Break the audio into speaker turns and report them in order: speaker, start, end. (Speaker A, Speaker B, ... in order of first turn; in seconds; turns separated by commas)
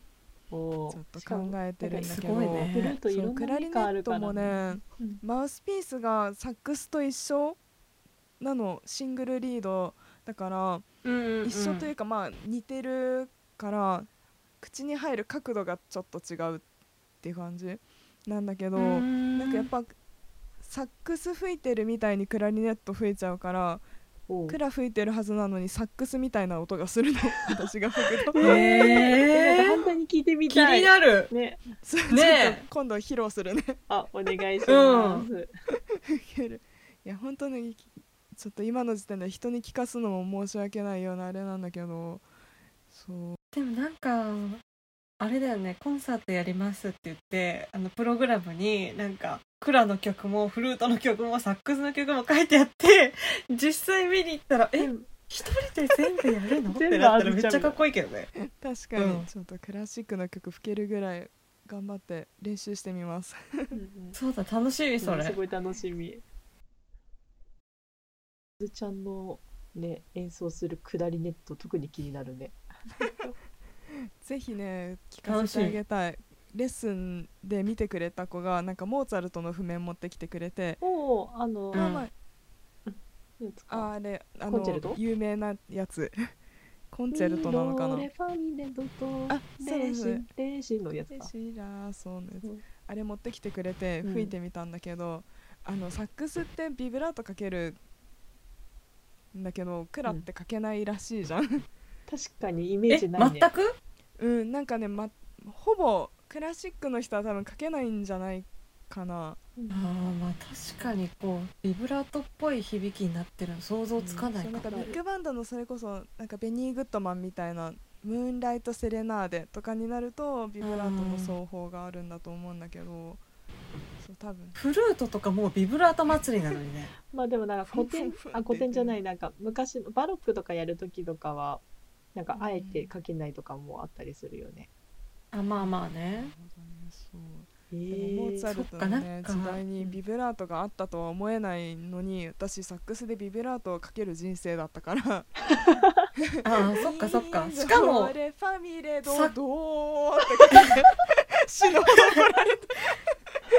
Speaker A: 0.5-5.2, Speaker B: 0.9-7.6, Speaker C: 2.1-3.0, Speaker B: 8.4-10.8, Speaker C: 11.0-11.9, Speaker B: 11.4-14.1, Speaker B: 14.6-16.6, Speaker B: 17.2-19.9, Speaker C: 18.8-19.7, Speaker B: 20.6-23.8, Speaker A: 24.3-24.6, Speaker B: 24.5-28.6, Speaker C: 28.3-29.8, Speaker A: 28.4-31.6, Speaker C: 30.5-31.3, Speaker B: 31.8-33.8, Speaker C: 32.1-32.6, Speaker A: 33.9-35.5, Speaker C: 34.7-35.3, Speaker B: 36.1-42.2, Speaker B: 42.9-43.4, Speaker C: 43.5-44.6, Speaker C: 45.2-58.3, Speaker A: 54.8-55.1, Speaker A: 56.7-57.8, Speaker B: 58.5-63.8, Speaker C: 59.0-59.3, Speaker A: 63.7-64.2, Speaker C: 64.1-65.4, Speaker A: 65.0-66.2, Speaker A: 68.6-72.6, Speaker B: 74.2-80.8, Speaker C: 75.2-75.8, Speaker A: 80.8-81.9, Speaker B: 81.7-82.1, Speaker C: 81.7-82.1, Speaker A: 82.8-83.9, Speaker B: 83.7-86.3, Speaker A: 84.5-85.0, Speaker B: 86.9-88.1, Speaker A: 87.1-91.3, Speaker B: 89.3-90.2, Speaker B: 91.1-97.8, Speaker A: 94.0-94.3, Speaker B: 99.3-101.6, Speaker A: 102.1-103.5, Speaker C: 102.9-103.8, Speaker B: 104.2-109.4, Speaker A: 109.6-109.8, Speaker C: 109.7-114.9, Speaker A: 114.0-115.0, Speaker B: 114.3-123.2, Speaker C: 120.6-121.3, Speaker B: 124.0-124.6, Speaker C: 124.5-126.9, Speaker A: 127.1-131.6, Speaker B: 127.7-129.0, Speaker A: 132.1-134.7, Speaker B: 132.3-132.8, Speaker C: 135.3-136.3, Speaker B: 135.6-145.3, Speaker A: 137.7-138.4, Speaker C: 138.4-140.0, Speaker A: 145.7-146.0, Speaker C: 146.4-148.1, Speaker B: 146.7-153.0, Speaker C: 149.0-149.3